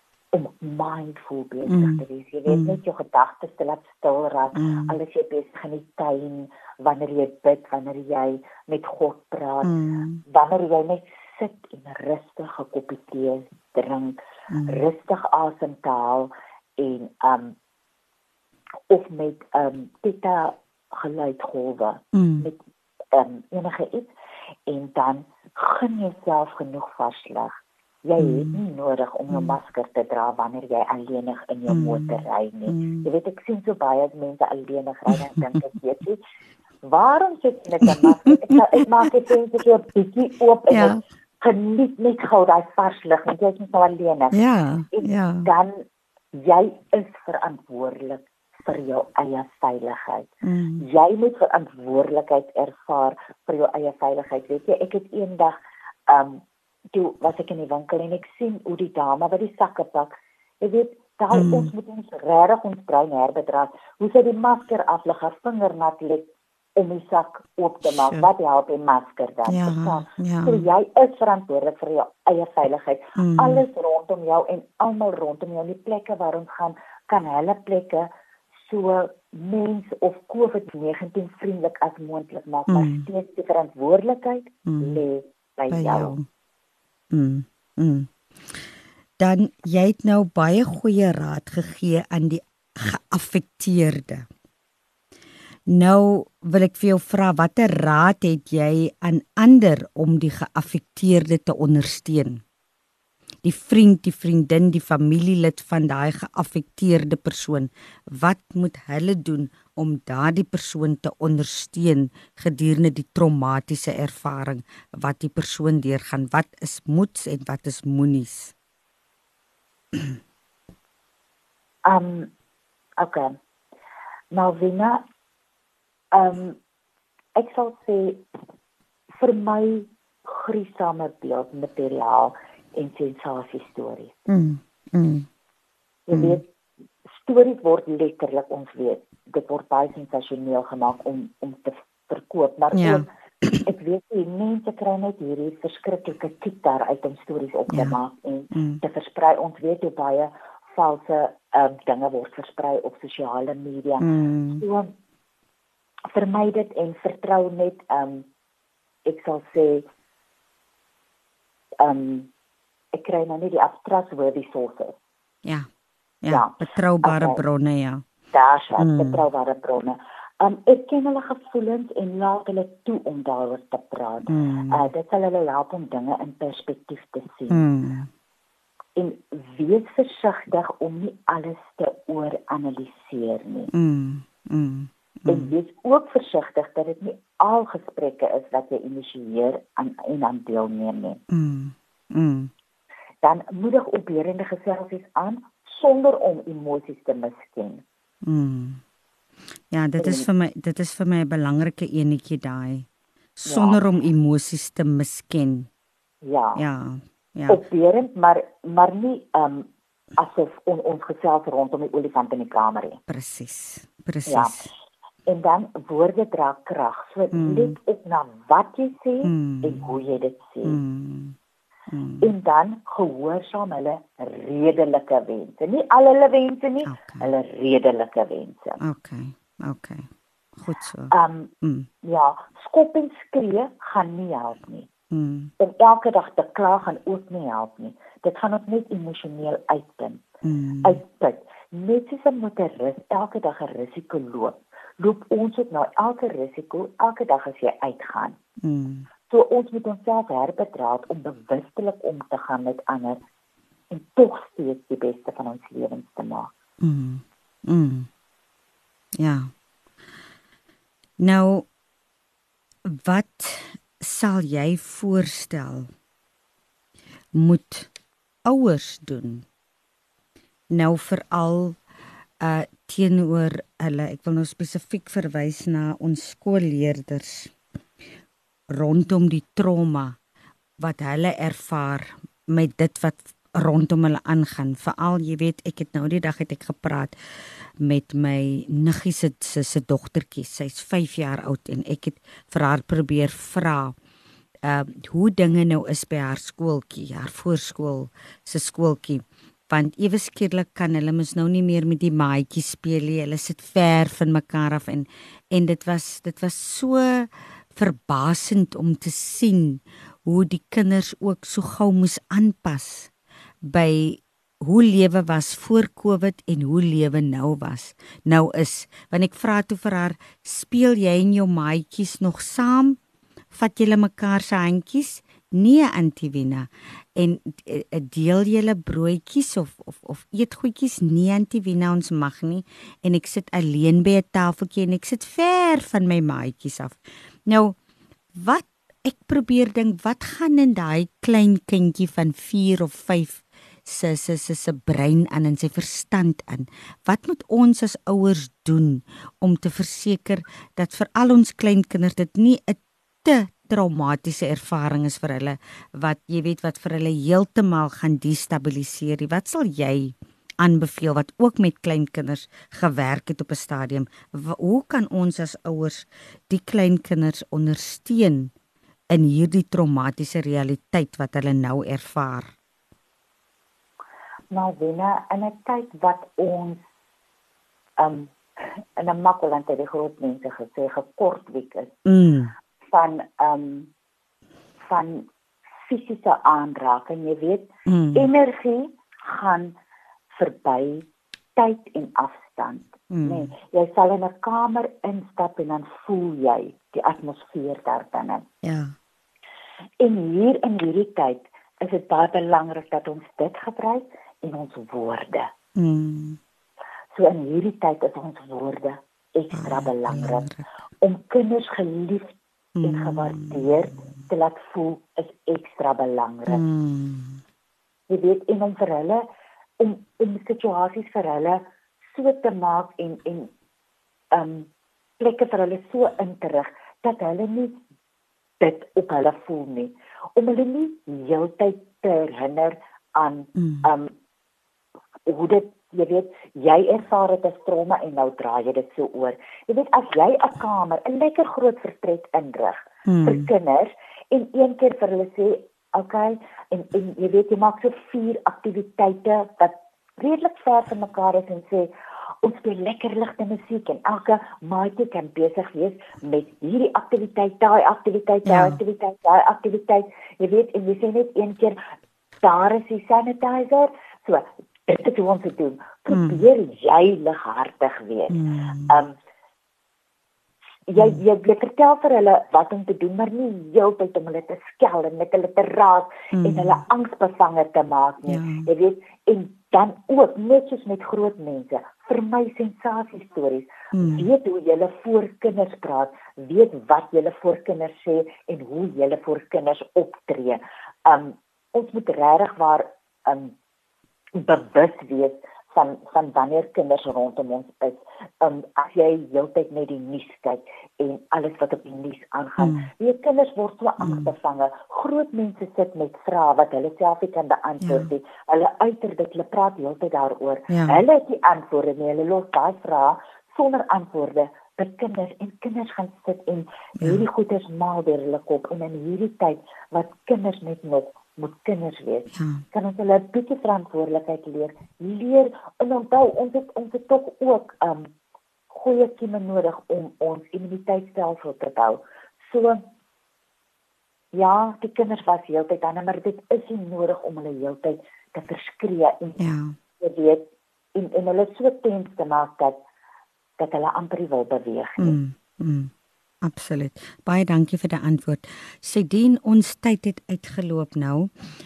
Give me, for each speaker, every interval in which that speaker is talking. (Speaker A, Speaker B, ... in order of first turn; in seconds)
Speaker A: 0.3-9.8, 10.3-17.6, 18.9-22.6, 23.1-24.1, 24.7-27.5, 28.1-36.2, 36.8-44.4, 44.9-55.5, 56.1-56.4, 56.9-78.1, 78.7-86.2, 121.9-122.3, 123.0-123.4, 124.3-125.0, 126.1-126.6, 127.4-128.2, 129.2-134.2, 136.1-136.5, 137.1-143.1, 143.6-154.9, 156.1-158.3, 159.1-159.9, 161.8-162.3, 162.9-164.9, 166.3-167.4, 168.3-177.7, 179.0-183.7, 185.3-191.2, 193.2-197.8, 200.0-200.3, 203.4-203.8, 206.2-206.6, 207.5-213.0, 214.3-214.7, 215.3-220.8, 222.2-228.8, 231.1-231.5, 232.0-234.9, 235.6-240.2, 240.8-248.4, 249.3-253.2, 253.9-256.5, 374.5-376.8, 378.0-382.0, 382.9-383.9, 384.9-385.3, 385.8-389.8, 390.3-398.5, 400.0-405.5, 407.1-410.5, 411.0-416.6, 418.1-419.3, 419.8-423.5, 424.3-427.8, 428.6-434.1, 435.3-451.9, 452.4-461.8, 462.4-469.1, 470.9-493.5, 494.4-528.1, 528.7-532.8, 534.3-539.4, 540.0-542.8, 543.6-545.2
Speaker B: 1.7-2.8, 4.5-4.9, 9.6-10.2, 14.5-14.8, 22.1-22.5, 28.2-28.6, 29.3-29.6, 31.7-33.1, 40.7-41.0, 44.3-45.5, 50.4-50.9, 61.3-61.7, 67.8-68.3, 69.5-70.7, 73.2-73.6, 82.7-83.1, 84.7-85.0, 85.7-86.2, 87.1-88.7, 89.2-94.3, 95.7-102.4, 103.4-118.5, 134.3-135.3, 136.1-136.4, 142.7-143.7, 147.7-148.0, 148.5-148.8, 154.0-154.7, 166.2-168.1, 168.8-169.2, 174.3-174.9, 177.5-178.1, 183.7-185.5, 191.3-192.5, 198.2-198.8, 199.7-202.9, 203.4-205.7, 206.6-207.6, 213.1-214.7, 217.3-217.8, 219.2-219.9, 220.7-221.4, 221.9-222.3, 226.9-227.3, 228.8-231.9, 235.1-235.5, 240.4-241.0, 248.6-249.1, 256.8-258.1, 259.2-259.5, 261.2-261.7, 262.9-265.9, 267.3-267.9, 268.5-269.5, 270.7-271.8, 272.4-277.5, 278.7-280.2, 280.8-287.2, 287.8-293.9, 294.6-313.1, 313.6-323.0, 323.5-337.8, 338.3-368.5, 369.1-372.6, 382.1-382.5, 387.9-388.3, 393.1-393.5, 398.6-398.9, 405.8-406.4, 409.5-410.6, 412.8-413.7, 416.5-417.4, 433.6-433.9, 443.1-443.5, 458.5-458.8, 466.1-466.4, 468.3-469.0, 476.3-476.8, 478.3-478.7, 483.9-484.3, 502.6-502.9, 504.0-504.3, 507.8-508.1, 510.7-511.0, 517.0-517.3, 522.3-522.6, 539.4-539.8, 545.0-545.9, 546.4-551.3